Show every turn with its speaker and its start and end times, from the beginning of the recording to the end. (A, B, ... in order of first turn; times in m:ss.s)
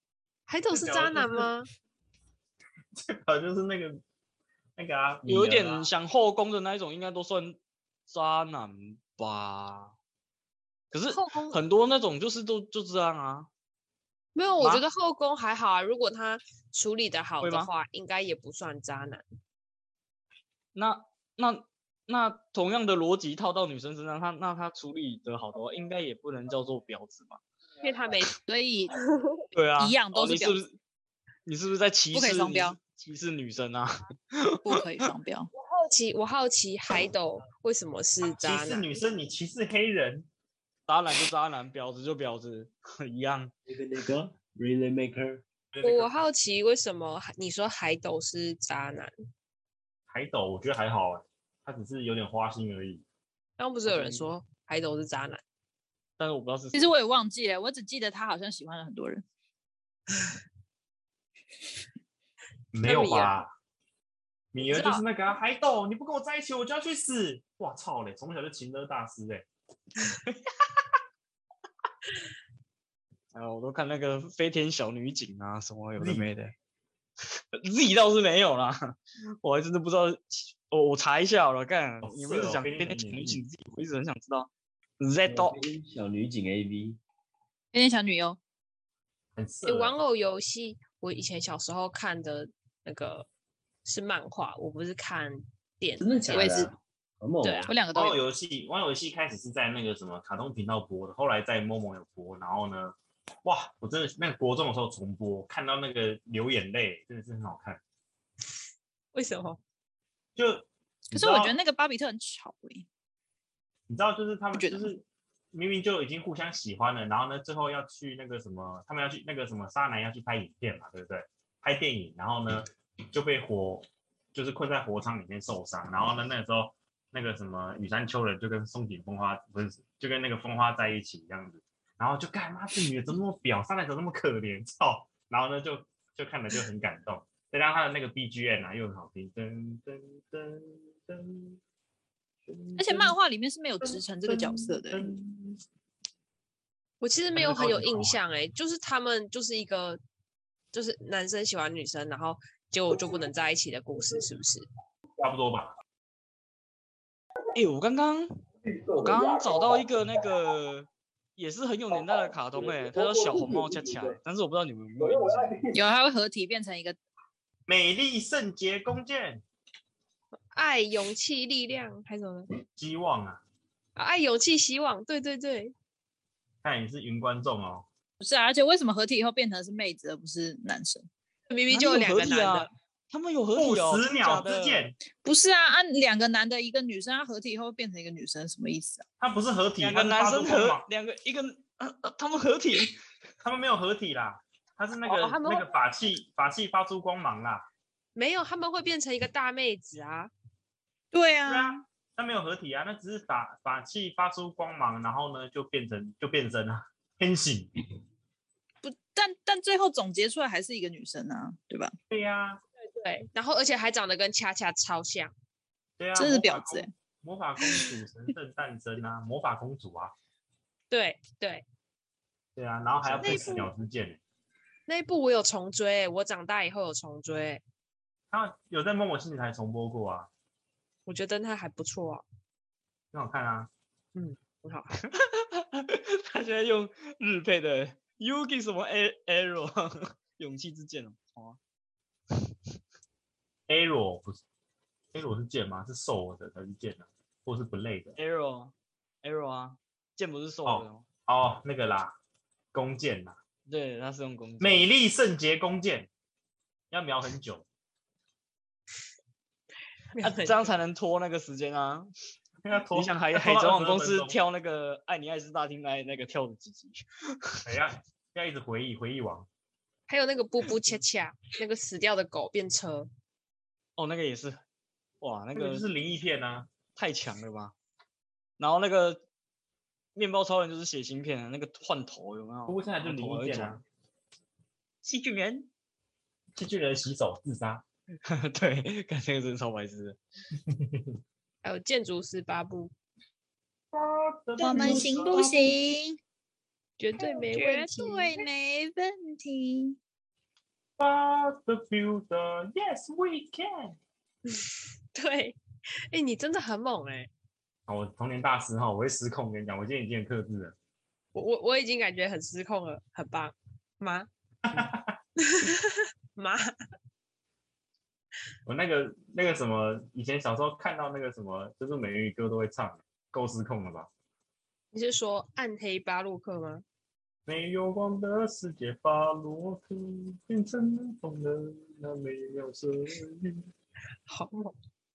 0:00.5-0:01.7 A
0:00.7-0:01.5 B
0:03.0-0:04.0 B
0:04.8-0:05.9 B
0:05.2-0:09.9 C
0:10.9-0:13.5 C
0:11.1-0:11.6 A
0:14.4-0:19.2 A
0:17.4-0:17.7 C
0:20.8-0:27.4 C
0:27.8-0:28.3 A
0:28.5-0:29.0 D
0:29.5-0:30.8 C
0:29.8-0:30.6 D
0:31.5-0:35.1 C
0:32.1-0:32.8 D
0:34.6-0:35.5 D
0:35.6-0:38.9 A
0:38.2-0:40.3 B
0:40.9-0:43.5 C
0:43.7-0:45.4 E
0:45.7-0:46.1 B
0:45.8-0:49.1 A
0:50.1-0:53.0 B
0:53.6-0:55.4 A
0:53.9-0:54.3 C
0:56.2-0:56.9 C
0:56.7-0:59.2 D
1:02.7-1:03.5 B
1:02.8-1:03.4 A
1:04.5-1:09.4 B
1:04.6-1:05.0 A
1:13.3-1:16.5 C
1:16.0-1:16.3 B
1:17.5-1:24.5 C
1:22.0-1:23.4 B
1:25.0-1:25.6 C
1:25.3-1:27.0 E
1:27.7-1:28.4 D
1:29.4-1:30.0 B
1:29.6-1:33.3 A
1:33.8-1:36.7 A
1:36.0-1:37.7 E
1:36.3-1:36.7 D
1:37.4-1:37.7 A
1:37.7-1:38.2 D
1:37.9-1:47.8 B
1:49.1-1:49.6 A
1:50.4-1:51.6 B
1:51.1-1:52.9 D
1:53.9-2:21.6 B
1:54.5-1:54.9 D
2:22.4-2:23.2 B
2:22.8-2:25.2 D
2:23.8-2:25.6 B
2:27.0-2:30.0 A
2:27.3-2:28.2 B
2:30.7-2:34.6 A
2:35.2-2:35.7 B
2:37.5-2:38.3 C
2:38.9-2:45.7 C
2:45.7-2:47.0 D
2:47.7-2:49.4 B
2:50.5-2:52.5 A
2:52.8-2:53.4 B
2:54.0-2:55.7 A
2:56.6-2:57.9 B
2:58.2-3:01.1 D
3:01.5-3:02.7 A
3:01.7-3:04.9 C
3:03.5-3:05.0 B
3:05.2-3:09.0 D
3:09.2-3:10.9 B
3:09.8-3:13.0 C
3:13.4-3:17.6 B
3:15.0-3:15.7 A
3:18.2-3:20.3 A
3:21.1-3:21.8 D
3:21.5-3:27.7 B
3:28.8-3:31.9 D
3:32.1-3:32.6 B
3:33.0-3:35.3 A
3:36.0-3:40.1 B
3:36.2-3:36.9 D
3:40.9-3:41.6 A
3:42.6-3:44.2 B
3:43.2-3:43.7 A
3:44.9-3:47.6 A
3:48.3-3:50.3 B
3:51.1-3:52.2 A
3:53.1-3:53.7 B
3:54.2-3:55.0 A
3:55.0-4:01.6 C
4:03.7-4:04.4 B
4:05.1-4:08.2 B
4:08.2-4:11.0 C
4:10.6-4:12.1 B
4:12.7-4:13.4 B
4:13.7-4:14.9 C
4:14.6-4:16.1 B
4:16.9-4:17.7 B
4:20.1-4:20.7 A
4:20.2-4:22.1 C
4:22.6-4:24.4 B
4:22.9-4:27.7 C
4:27.6-4:29.5 B
4:30.1-4:33.1 A
4:34.0-4:34.6 C
4:35.2-4:35.9 C
4:35.6-4:36.7 B
4:37.0-4:37.7 C
4:38.6-4:39.2 C
4:40.2-4:43.8 C
4:42.7-4:43.8 B
4:45.0-4:45.7 C
4:46.6-4:47.8 B
4:48.2-4:50.2 C
4:50.7-4:51.1 B
4:51.6-4:52.9 A
4:53.9-4:55.8 B
4:54.6-4:56.2 D
4:57.0-4:58.5 A
4:57.2-5:00.0 D
5:01.0-5:04.0 B
5:05.1-5:05.6 A
5:06.1-5:07.3 A
5:07.9-5:10.8 B
5:11.3-5:14.3 A
5:14.7-5:15.2 B
5:15.4-5:16.7 A
5:18.7-5:24.1 B
5:24.9-5:26.8 A
5:27.5-5:33.7 B
5:34.3-5:34.8 A